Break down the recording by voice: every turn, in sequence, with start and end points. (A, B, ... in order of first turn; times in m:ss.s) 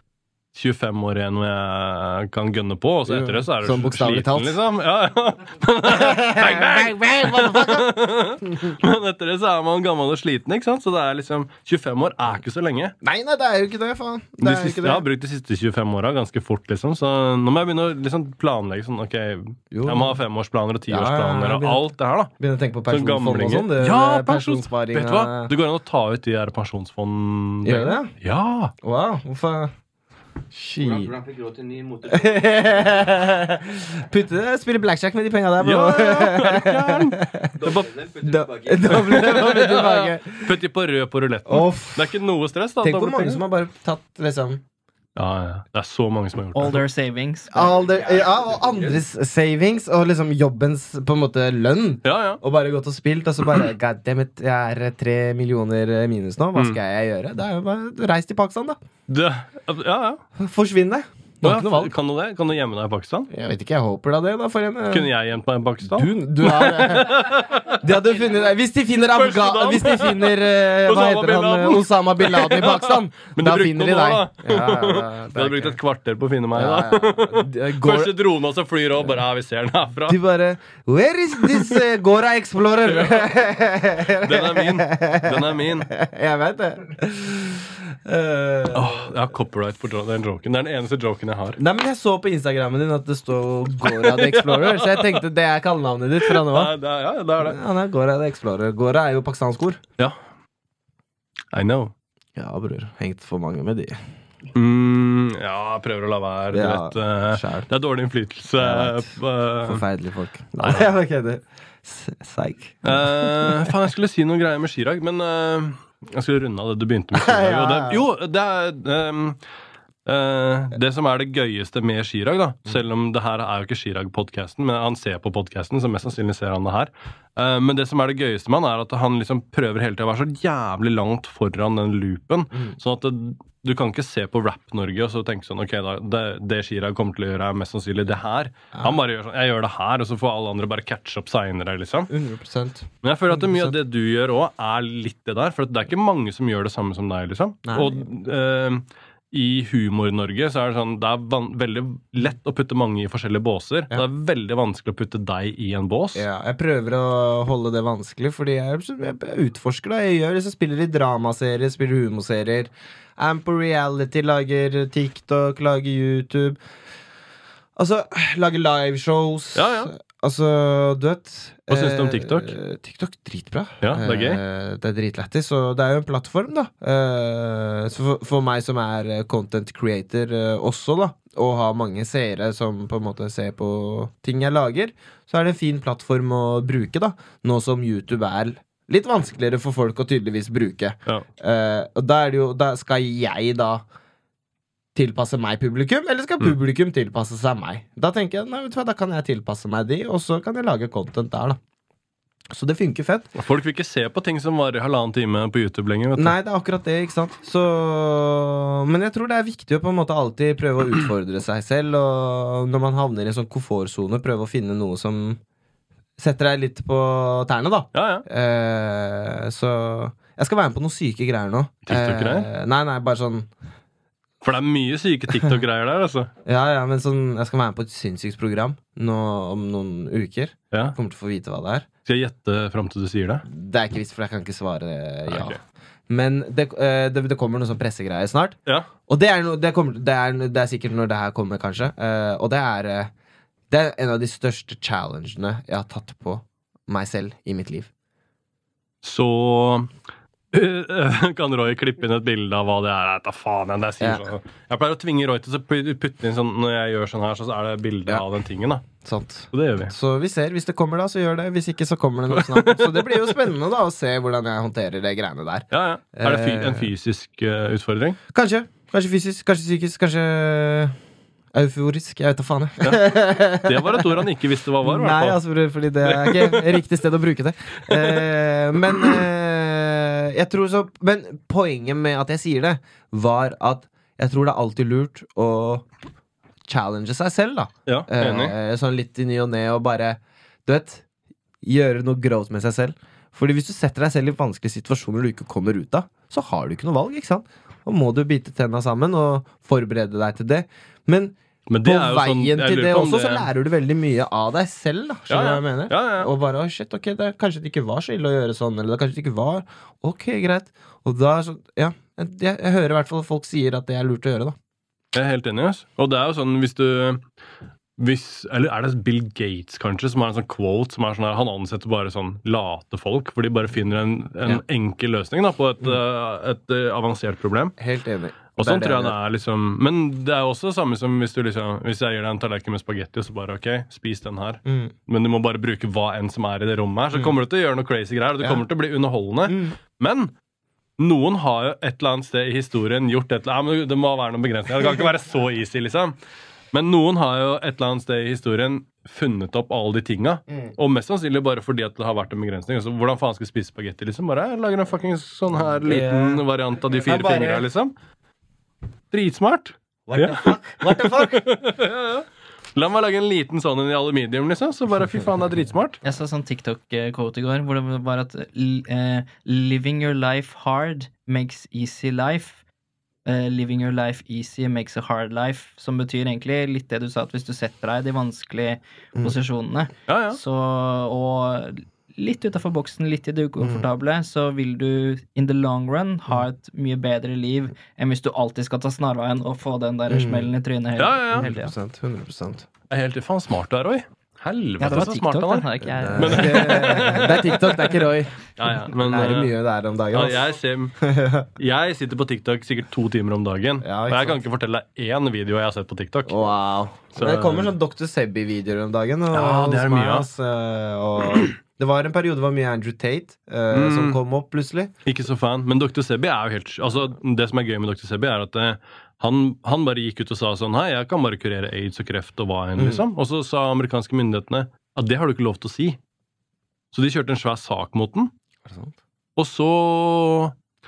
0:00.5-0:12.9 A
0:03.0-0:04.6 B
0:05.8-0:07.9 B
0:08.4-0:08.8 B
0:13.0-0:15.0 B
0:14.4-0:22.3 A
0:19.7-0:20.2 B
0:20.9-0:21.8 B
0:22.4-0:25.5 B
0:22.9-0:28.7 A
0:27.6-0:28.1 B
0:28.8-0:29.7 B
0:30.5-0:31.1 B
0:30.8-0:33.2 C
0:32.1-0:37.5 B
0:35.6-0:37.9 A
0:37.5-0:39.7 C
0:38.2-0:40.6 B
0:38.8-0:43.4 A
0:41.5-0:42.2 B
0:42.8-0:44.6 B
0:45.2-0:46.8 A
0:46.5-0:47.7 D
0:47.5-0:58.8 B
0:47.5-0:49.0 C
0:52.0-0:52.4 A
0:59.1-1:00.2 A
1:00.4-1:01.9 B
1:01.4-1:03.3 A
1:03.3-1:05.1 B
1:04.9-1:07.8 A
1:05.8-1:07.3 B
1:07.8-1:15.8 B
1:09.1-1:20.2 A
1:16.5-1:18.2 B
1:20.1-1:29.1 B
1:21.4-1:21.8 A
1:22.9-1:23.3 A
1:24.2-1:25.9 A
1:28.7-1:31.6 A
1:31.6-1:36.7 B
1:33.8-1:35.2 A
1:36.2-1:37.6 A
1:37.4-1:39.8 B
1:41.5-1:41.9 A
1:42.4-1:44.0 B
1:44.5-1:49.8 A
1:46.5-1:47.7 B
1:48.6-1:49.1 B
1:49.6-1:53.7 B
1:50.6-1:50.9 A
1:52.8-1:59.4 A
1:57.1-1:58.0 B
2:00.0-2:22.1 A
2:12.5-2:12.8 B
2:22.1-2:23.7 B
2:23.0-2:36.2 A
2:27.6-2:28.0 B
2:36.1-2:46.6 B
2:47.8-3:13.8 B
2:49.5-2:49.9 A
2:51.7-2:52.6 A
2:53.8-2:54.4 A
3:14.9-3:21.6 B
3:22.5-3:23.3 B
3:23.4-3:26.3 A
3:26.2-3:35.4 B
3:36.2-3:43.5 B
3:37.9-3:38.2 A
3:41.8-3:42.5 A
3:44.4-3:46.3 A
3:46.4-3:51.9 B
3:50.7-3:51.0 A
3:52.0-3:53.4 A
3:53.4-3:58.6 B
3:55.3-3:55.6 A
3:59.1-4:03.1 B
4:03.7-4:07.9 B
4:09.0-4:09.9 A
4:10.5-4:18.9 A
4:19.0-4:26.9 B
4:19.5-4:19.9 A
4:22.3-4:23.4 A
4:25.7-4:28.2 A
4:28.3-4:31.0 B
4:31.5-4:34.3 B
4:32.8-4:35.4 A
4:34.8-4:45.8 B
4:36.0-4:36.8 A
4:37.9-4:38.2 A
4:46.7-4:51.0 B
4:47.9-4:48.5 A
4:51.6-5:14.5 B
5:01.7-5:03.5 A
5:05.3-5:06.3 A
5:15.1-5:17.2 A
5:18.0-5:27.8 A
5:27.8-5:29.2 B
5:28.6-5:40.3 A
5:34.6-5:34.9 B
5:37.1-5:37.4 B
5:39.4-5:39.8 B
5:41.0-5:46.2 A
5:46.7-5:57.9 A
5:55.6-5:57.7 B
5:59.1-6:06.0 A
6:00.1-6:01.4 B
6:06.0-6:12.6 D
6:13.2-6:31.7 D
6:20.1-6:20.4 A
6:23.6-6:23.8 B
6:30.1-6:30.5 B
6:31.0-6:31.5 A
6:31.3-6:32.7 B
6:32.9-6:35.6 A
6:34.8-6:37.3 D
6:35.9-6:41.5 B
6:36.2-6:37.6 A
6:38.6-6:39.5 A
6:40.1-6:41.0 A
6:41.6-6:46.5 A
6:43.8-6:44.4 B
6:46.3-6:54.9 B
6:47.1-6:47.7 A
6:49.3-6:50.3 A
6:53.7-6:54.2 A
6:55.0-7:06.0 A
7:02.8-7:03.0 B
7:06.9-7:08.3 A
7:08.6-7:08.9 B
7:09.4-7:10.5 A